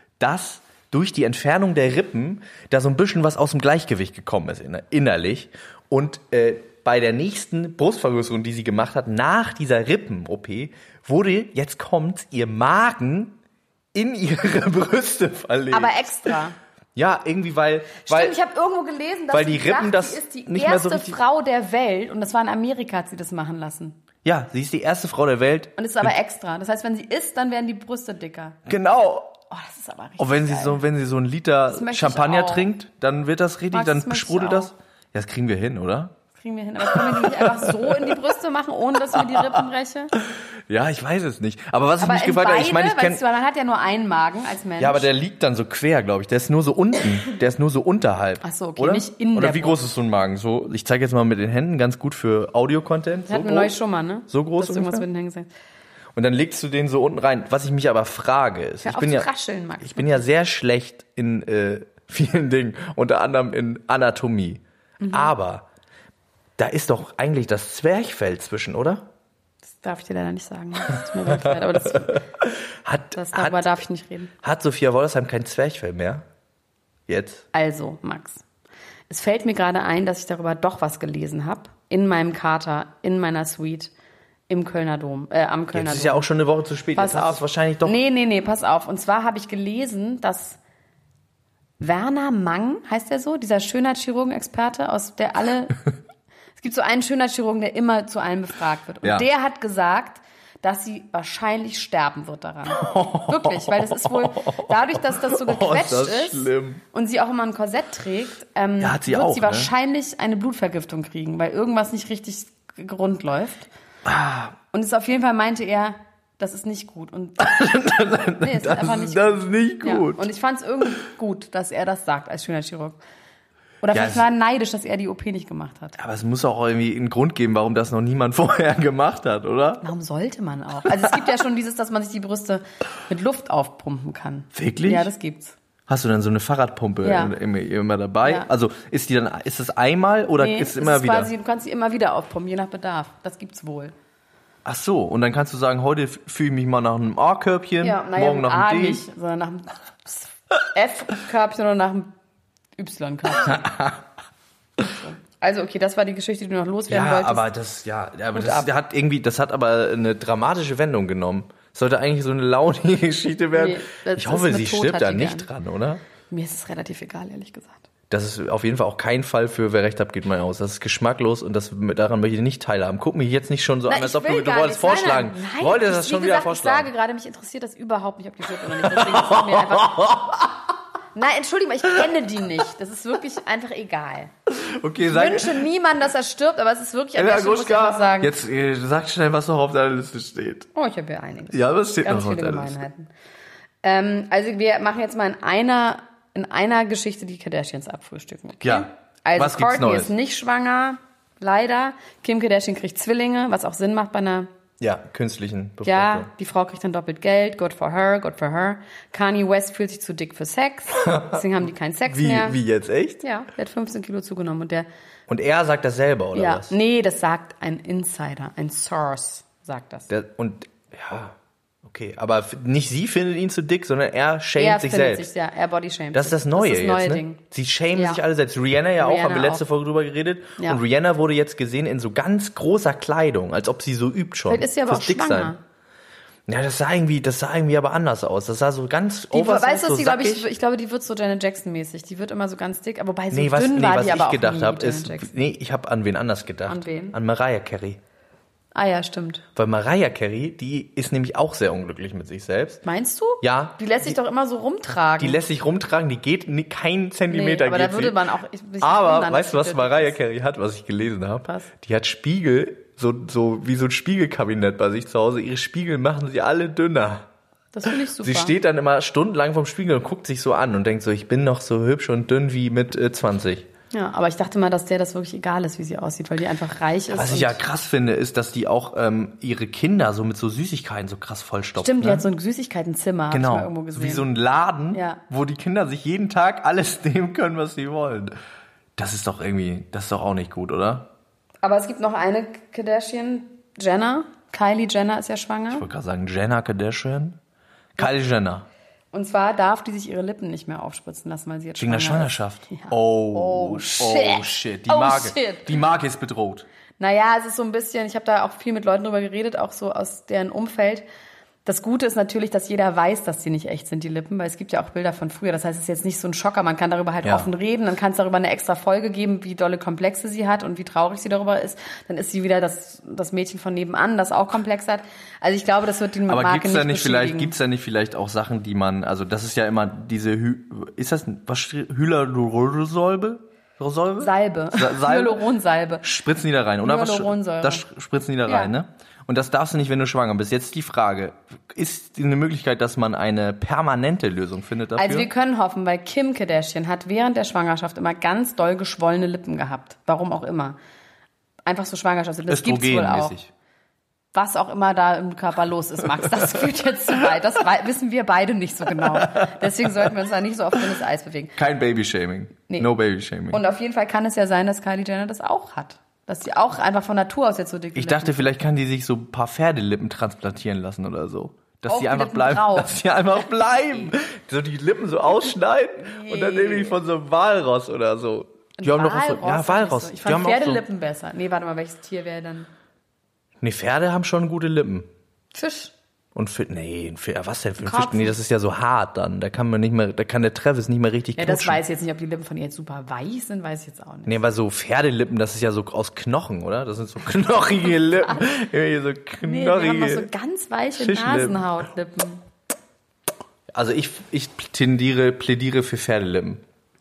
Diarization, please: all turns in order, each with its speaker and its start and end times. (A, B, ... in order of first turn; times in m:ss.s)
0:00.2-0:13.4 A
0:13.9-0:16.0 A
0:15.7-0:16.6 B
0:17.0-0:18.4 A
0:18.0-0:24.0 B
0:19.3-0:21.2 A
0:24.2-0:26.1 A
0:25.8-0:28.6 B
0:28.7-0:29.4 A
0:29.5-0:30.8 B
0:30.2-0:36.2 A
0:31.7-0:32.7 B
0:33.7-0:34.7 B
0:36.4-0:40.1 B
0:36.9-0:37.9 A
0:39.2-0:39.5 A
0:40.7-0:43.2 A
0:42.0-0:45.1 B
0:44.8-0:53.8 A
0:48.4-0:49.8 B
0:53.3-0:55.5 B
0:54.3-0:55.1 A
0:56.2-0:59.3 A
0:58.8-1:00.2 B
0:59.8-1:05.7 A
1:05.0-1:05.3 B
1:06.6-1:09.1 A
1:09.7-1:12.2 B
1:12.1-1:13.8 A
1:13.1-1:14.3 B
1:14.4-1:16.2 A
1:17.1-1:17.5 A
1:17.5-1:18.4 B
1:19.1-1:23.9 B
1:24.5-1:26.3 B
1:25.7-1:28.0 A
1:27.0-1:30.6 B
1:31.8-1:35.8 B
1:36.6-1:53.7 B
1:42.7-1:46.8 A
1:48.8-1:49.7 A
1:54.0-1:54.6 A
1:54.7-1:57.6 B
1:57.4-2:00.3 A
1:58.4-2:03.0 B
2:03.8-2:06.0 B
2:03.9-2:04.3 A
2:06.0-2:09.8 A
2:09.8-2:15.6 B
2:14.5-2:15.1 A
2:15.9-2:21.3 A
2:17.0-2:17.3 B
2:20.4-2:23.9 B
2:24.6-2:29.0 A
2:27.8-2:32.1 B
2:32.8-2:33.7 B
2:33.4-2:34.0 A
2:34.8-2:37.5 B
2:36.9-2:46.0 A
2:38.3-2:38.7 B
2:43.5-2:45.5 B
2:46.3-2:47.9 B
2:48.1-2:56.9 A
2:53.9-3:00.4 B
2:58.6-3:00.6 A
3:01.2-3:04.3 B
3:04.5-3:05.7 A
3:05.0-3:08.3 B
3:07.2-3:10.7 A
3:10.8-3:13.1 B
3:11.5-3:12.8 A
3:13.8-3:24.5 B
3:18.6-3:20.1 A
3:24.8-3:26.3 A
3:25.8-3:32.6 B
3:31.1-3:31.4 A
3:32.1-3:33.2 A
3:33.2-3:34.9 B
3:35.3-3:36.7 A
3:36.3-3:40.1 B
3:40.1-3:45.3 A
3:44.6-3:47.4 B
3:46.1-3:55.5 A
3:47.9-3:48.2 B
3:49.0-3:49.6 B
3:54.5-3:55.6 B
3:56.5-4:00.5 A
3:59.3-4:05.3 B
4:03.3-4:08.0 A
4:06.7-4:07.2 B
4:08.8-4:09.4 B
4:09.6-4:12.8 A
4:12.8-4:15.4 B
4:13.4-4:14.2 A
4:15.2-4:18.2 A
4:17.3-4:20.2 B
4:18.8-4:27.3 A
4:21.5-4:21.7 B
4:27.7-4:28.6 B
4:27.9-4:33.7 A
4:33.9-4:37.6 B
4:37.1-4:42.3 A
4:41.8-4:44.3 B
4:43.3-4:48.4 A
4:44.9-4:45.2 B
4:49.0-4:51.1 A
4:51.6-4:55.9 B
4:55.7-4:57.4 A
4:58.0-4:58.7 A
4:59.1-5:05.8 B
5:01.8-5:06.7 A
5:07.0-5:11.0 B
5:11.6-5:27.5 B
5:17.2-5:17.5 A
5:26.3-5:35.5 A
5:34.2-5:36.0 B
5:36.0-5:45.3 A
5:36.8-5:37.8 B
5:38.5-5:38.7 B
5:45.0-5:50.8 B
5:51.7-5:53.4 B
5:52.5-5:53.5 A
5:54.3-6:01.6 B
5:59.1-5:59.6 A
6:01.6-6:03.6 A
6:03.5-6:08.5 B
6:08.0-6:20.8 A
6:11.9-6:13.0 B
6:16.0-6:17.0 B
6:18.8-6:22.7 B
6:23.6-6:25.1 A
6:25.5-6:25.9 B
6:26.4-6:31.8 A
6:27.8-6:28.4 B
6:31.4-6:34.4 B
6:34.3-6:40.3 A
6:38.2-6:38.5 B
6:39.4-6:42.4 B
6:40.9-6:41.8 A
6:43.7-6:46.6 A